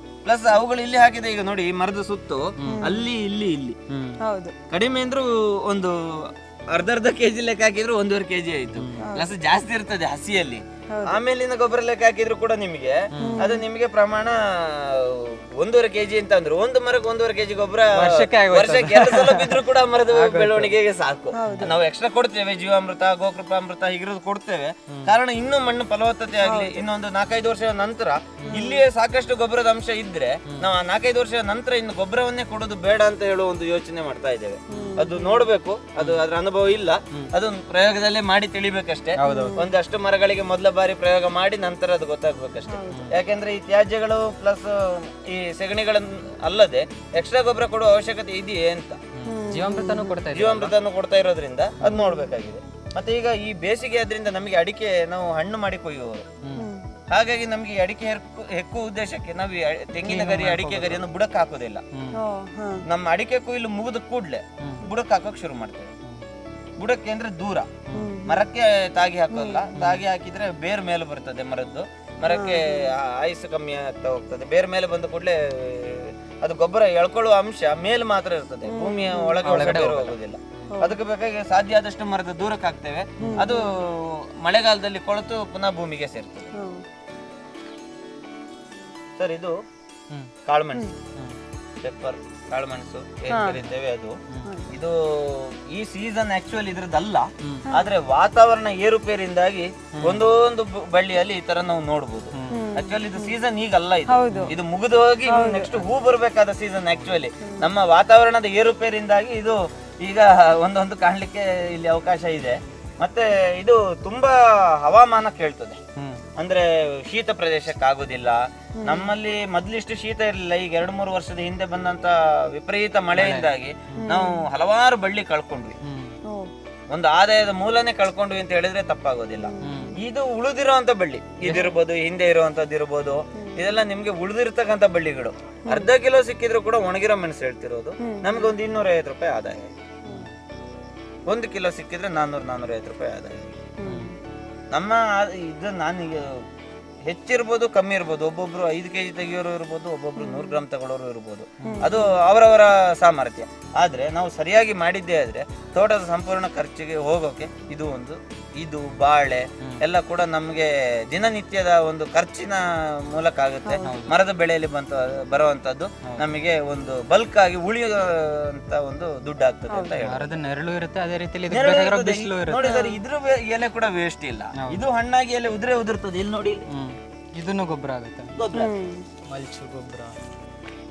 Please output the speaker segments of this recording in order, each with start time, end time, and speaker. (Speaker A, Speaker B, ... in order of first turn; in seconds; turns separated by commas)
Speaker A: 0.2-3.8, Speaker B: 2.6-3.0, Speaker C: 2.6-3.0, Speaker B: 3.9-4.2, Speaker C: 4.2-4.5, Speaker A: 4.7-49.0, Speaker C: 9.0-9.3, Speaker C: 10.9-11.2, Speaker B: 13.2-13.5, Speaker C: 13.2-13.6, Speaker B: 17.9-20.7, Speaker C: 21.3-21.7, Speaker C: 26.4-26.8, Speaker C: 28.5-28.8, Speaker B: 34.7-35.1, Speaker C: 34.7-35.4, Speaker B: 39.2-39.6, Speaker C: 39.2-39.7, Speaker C: 42.7-43.2, Speaker B: 49.2-50.7, Speaker C: 49.2-50.2, Speaker A: 50.3-56.2, Speaker C: 51.8-52.3, Speaker C: 56.6-56.9, Speaker A: 57.1-61.8, Speaker B: 60.0-61.0, Speaker C: 62.1-62.8, Speaker A: 62.9-65.9, Speaker B: 64.6-64.9, Speaker A: 66.8-86.5, Speaker B: 67.9-68.2, Speaker C: 67.9-68.4, Speaker C: 69.3-69.7, Speaker B: 69.7-70.0, Speaker C: 72.3-72.9, Speaker C: 78.7-79.5, Speaker B: 79.4-80.2, Speaker C: 83.2-83.7, Speaker A: 89.2-89.6, Speaker A: 90.5-91.0, Speaker A: 91.8-94.2, Speaker C: 93.3-93.6, Speaker C: 94.5-94.7, Speaker A: 94.7-115.8, Speaker B: 100.0-100.2, Speaker B: 102.4-102.6, Speaker C: 102.5-103.4, Speaker C: 104.1-104.6, Speaker C: 105.3-105.8, Speaker B: 116.0-116.2, Speaker A: 116.4-125.8, Speaker C: 118.8-119.1, Speaker B: 123.2-124.1, Speaker C: 124.0-124.4, Speaker B: 125.8-126.2, Speaker A: 126.9-139.7, Speaker C: 129.4-130.0, Speaker B: 129.6-129.9, Speaker B: 131.4-131.7, Speaker C: 133.4-133.6, Speaker C: 138.0-138.5, Speaker A: 141.3-143.6, Speaker C: 143.8-144.2, Speaker B: 143.8-144.1, Speaker A: 144.7-146.4, Speaker A: 147.1-170.4, Speaker C: 150.2-150.6, Speaker B: 151.6-151.9, Speaker C: 151.6-152.1, Speaker B: 163.8-164.2, Speaker C: 169.7-170.0, Speaker B: 170.0-172.8, Speaker A: 171.5-176.6, Speaker C: 172.6-173.0, Speaker B: 174.6-174.8, Speaker B: 176.7-178.3, Speaker A: 178.3-178.7, Speaker C: 178.5-179.1, Speaker B: 179.3-180.2